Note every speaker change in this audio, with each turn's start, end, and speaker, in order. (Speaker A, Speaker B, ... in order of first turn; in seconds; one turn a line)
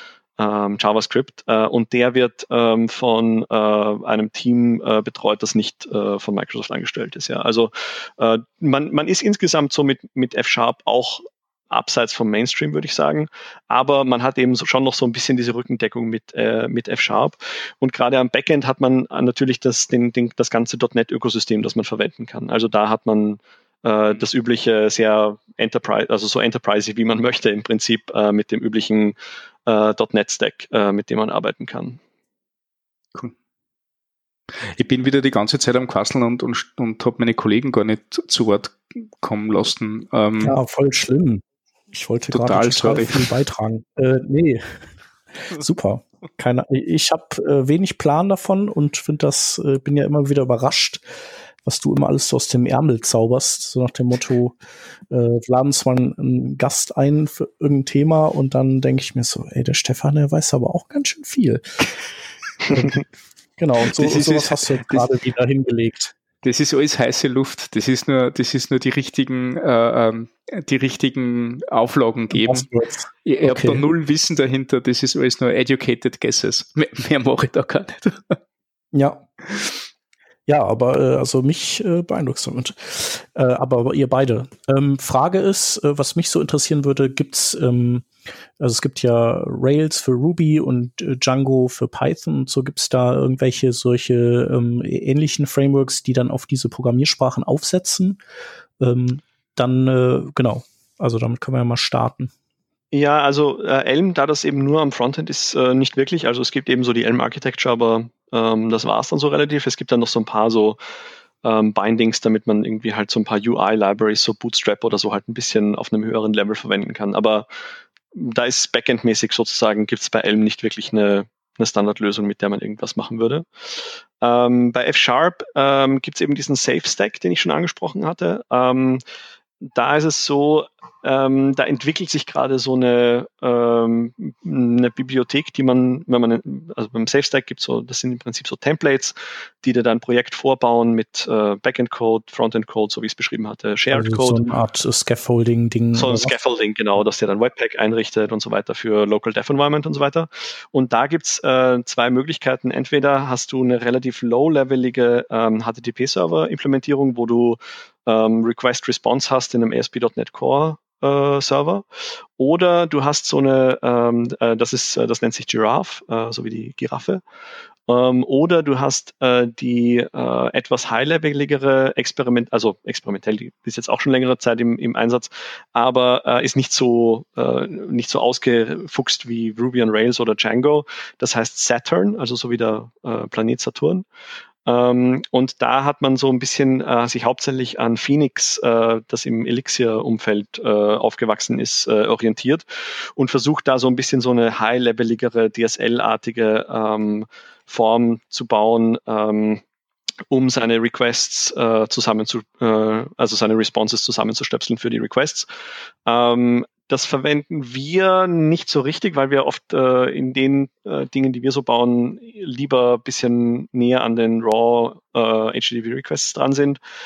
Speaker A: 0.4-29.1
Speaker A: 29.7-32.0
Speaker B: 34.6-40.6
Speaker C: 40.4-44.8
Speaker B: 42.3-43.3
Speaker C: 45.4-51.0
Speaker C: 51.6-54.6
Speaker C: 55.1-61.9
Speaker C: 62.7-63.0
Speaker C: 63.6-66.1
Speaker B: 64.0-65.1
Speaker B: 66.4-72.7
Speaker C: 72.3-73.8
Speaker B: 73.2-78.4
Speaker C: 78.9-79.3
Speaker C: 80.5-88.1
Speaker C: 88.6-98.2
Speaker C: 98.8-102.3
Speaker A: 102.9-110.8
Speaker A: 111.4-117.5
Speaker A: 118.1-129.0
Speaker A: 129.6-144.5
Speaker C: 143.9-146.4
Speaker A: 145.9-161.8
Speaker A: 162.4-167.2
Speaker A: 167.9-184.1
Speaker A: 184.7-199.6
Speaker A: 200.3-205.5
Speaker A: 206.1-216.8